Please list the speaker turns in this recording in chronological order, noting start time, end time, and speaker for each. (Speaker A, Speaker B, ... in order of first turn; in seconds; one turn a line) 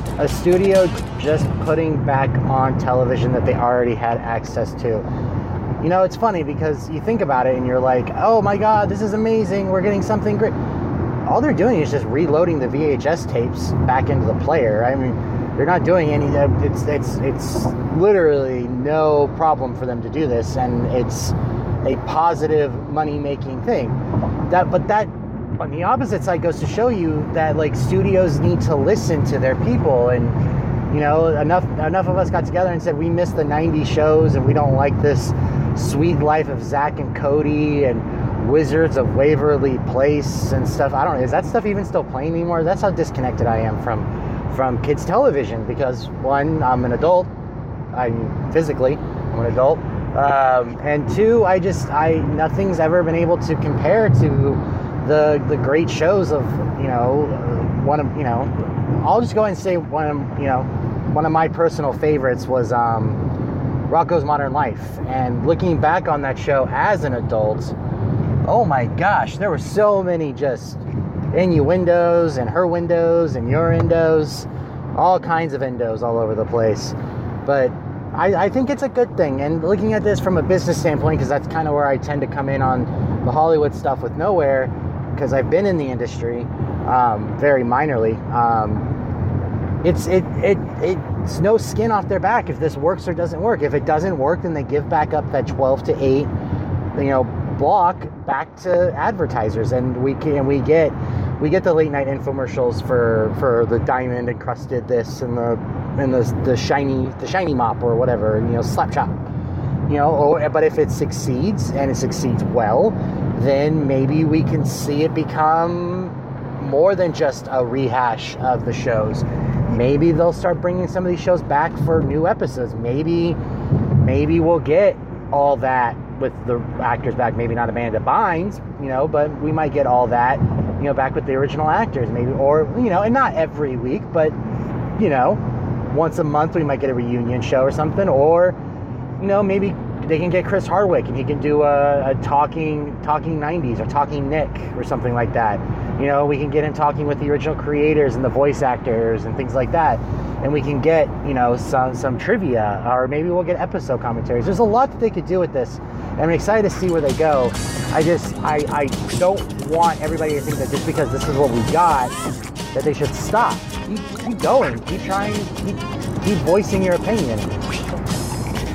Speaker A: 0.2-5.0
Speaker A: 5.8-10.6
Speaker A: 11.3-47.3
Speaker A: 47.9-67.8
Speaker A: 68.5-70.8
Speaker A: 71.3-89.0
Speaker A: 89.8-96.3
Speaker A: 96.9-109.2
Speaker A: 109.9-123.4
Speaker A: 124.0-134.4
Speaker A: 135.0-138.6
Speaker A: 139.2-162.1
Speaker A: 162.7-167.6